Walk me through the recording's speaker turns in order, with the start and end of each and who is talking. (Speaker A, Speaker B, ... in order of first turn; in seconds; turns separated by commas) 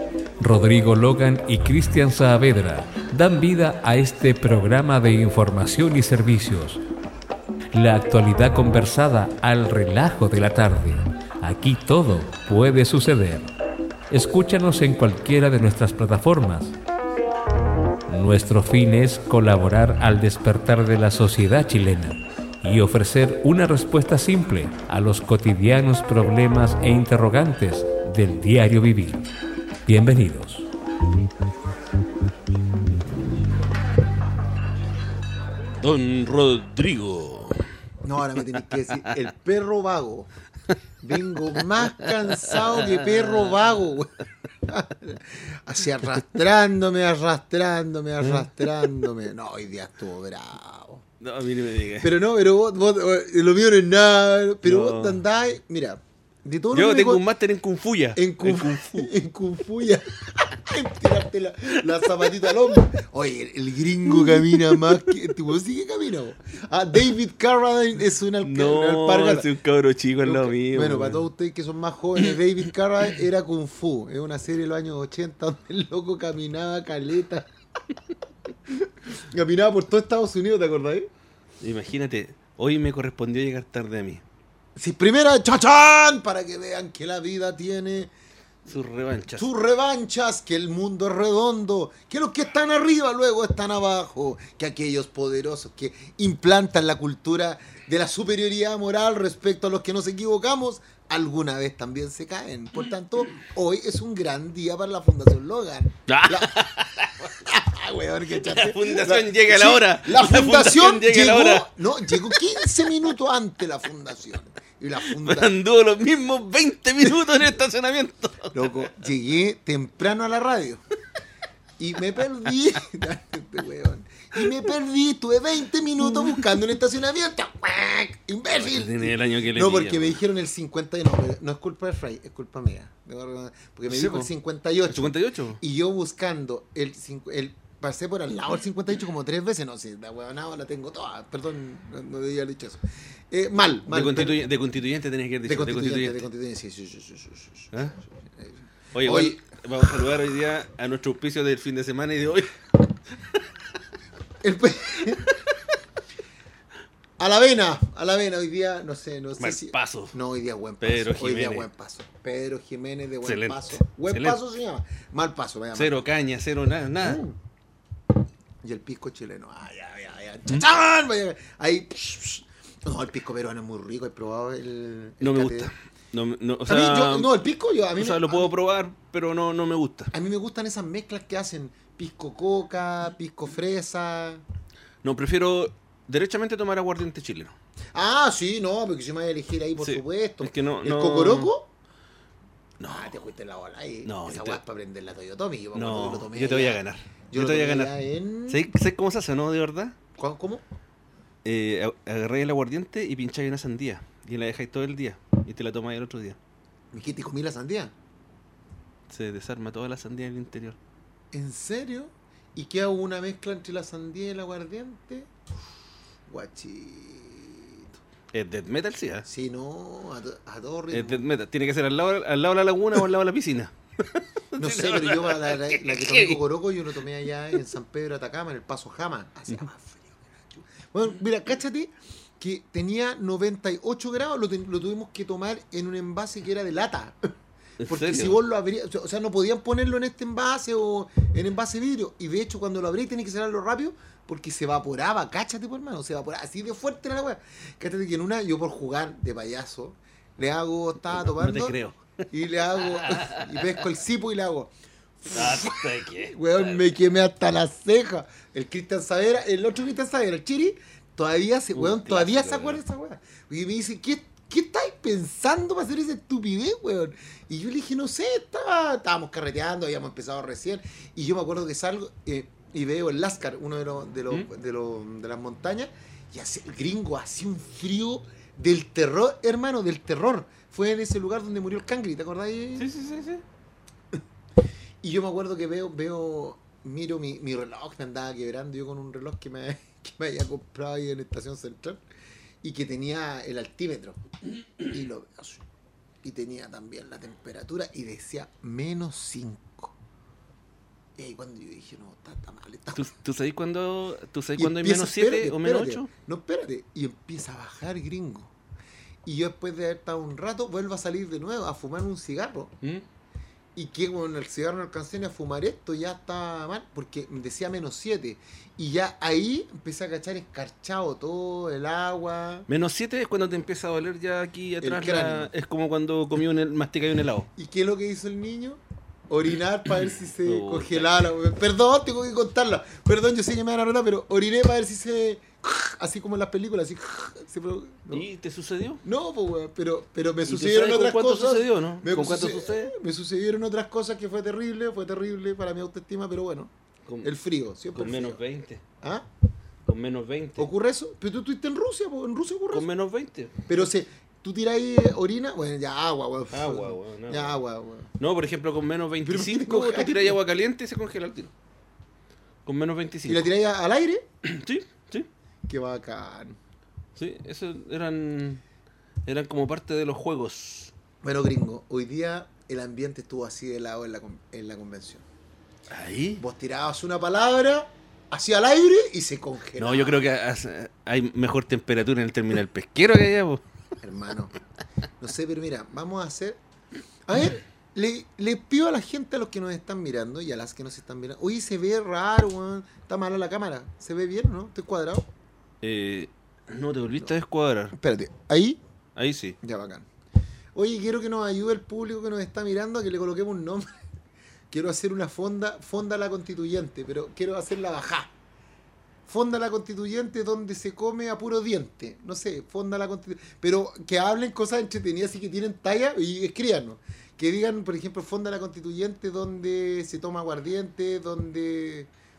Speaker A: 0.4-6.8, Speaker A: 7.7-13.5, Speaker A: 14.1-16.7, Speaker A: 18.1-29.3, Speaker A: 29.9-30.6, Speaker B: 35.8-37.7, Speaker C: 38.0-40.3, Speaker C: 41.0-51.0, Speaker B: 41.8-43.8, Speaker B: 48.2-49.0, Speaker B: 51.2-52.1, Speaker C: 52.0-57.2, Speaker B: 54.6-55.2, Speaker B: 56.7-59.1, Speaker C: 58.1-69.5, Speaker B: 61.8-62.5, Speaker B: 64.1-65.3, Speaker B: 68.4-71.3, Speaker C: 70.2-77.5, Speaker C: 78.7-81.1, Speaker B: 81.6-84.2, Speaker C: 84.8-88.1, Speaker B: 88.7-89.5, Speaker C: 89.3-115.5, Speaker B: 106.1-107.3, Speaker B: 108.3-112.6, Speaker B: 115.0-118.7, Speaker C: 118.5-120.8, Speaker C: 121.8-144.4, Speaker B: 126.1-126.5, Speaker B: 128.5-130.2, Speaker B: 133.9-134.3, Speaker B: 134.9-135.6, Speaker B: 143.9-146.3, Speaker C: 145.4-149.4, Speaker B: 148.9-152.5, Speaker C: 154.4-155.4, Speaker C: 157.2-166.0, Speaker B: 159.4-160.2, Speaker B: 160.8-161.7, Speaker B: 163.2-164.4, Speaker B: 165.7-167.2, Speaker C: 167.0-167.4, Speaker C: 168.6-175.7, Speaker B: 175.2-177.3, Speaker C: 176.7-178.5, Speaker B: 178.0-180.1, Speaker C: 180.1-184.4, Speaker B: 185.0-187.5, Speaker C: 187.9-191.7, Speaker B: 189.8-191.5, Speaker B: 192.8-193.1, Speaker C: 192.8-198.7, Speaker B: 194.0-194.6, Speaker B: 195.7-197.9, Speaker B: 198.5-200.0, Speaker C: 200.2-200.6, Speaker B: 201.4-206.4, Speaker C: 206.9-207.9, Speaker B: 209.1-210.8, Speaker C: 211.3-215.3, Speaker C: 216.3-217.8, Speaker B: 218.3-219.2, Speaker C: 219.2-221.2, Speaker B: 220.9-226.4, Speaker C: 224.6-237.3, Speaker B: 237.8-238.4, Speaker C: 237.8-251.8, Speaker B: 251.1-252.0, Speaker C: 252.3-282.9, Speaker B: 252.8-253.8, Speaker B: 255.3-257.0, Speaker B: 261.7-262.8, Speaker B: 282.8-283.4, Speaker C: 285.0-292.0, Speaker C: 292.6-294.2, Speaker C: 294.8-295.6, Speaker C: 296.2-299.9, Speaker C: 301.2-303.1, Speaker B: 302.9-306.1, Speaker C: 304.6-308.5, Speaker C: 309.2-312.7, Speaker C: 313.7-322.7, Speaker B: 322.7-327.5, Speaker C: 324.8-325.5, Speaker C: 327.6-338.3, Speaker B: 330.4-331.3, Speaker B: 338.1-339.0, Speaker C: 339.0-348.4, Speaker B: 340.4-342.9, Speaker B: 347.1-347.3, Speaker B: 347.9-348.8, Speaker C: 349.0-349.3, Speaker B: 349.9-350.7, Speaker C: 350.6-352.9, Speaker B: 352.7-353.5, Speaker C: 353.7-358.1, Speaker B: 356.5-357.6, Speaker B: 358.2-361.5, Speaker C: 359.2-360.4, Speaker B: 362.6-363.4, Speaker C: 363.2-364.2, Speaker B: 364.4-365.3, Speaker C: 365.7-366.6, Speaker B: 367.1-368.6, Speaker B: 369.2-370.9, Speaker C: 371.2-375.2, Speaker B: 375.9-376.4, Speaker C: 376.4-380.2, Speaker B: 379.8-383.6, Speaker C: 384.0-384.5, Speaker C: 385.2-386.6, Speaker C: 387.2-395.2, Speaker B: 395.8-397.9, Speaker C: 397.9-398.8, Speaker B: 399.1-399.6, Speaker C: 399.6-400.1, Speaker C: 400.7-404.0, Speaker C: 404.7-408.3, Speaker C: 409.3-422.1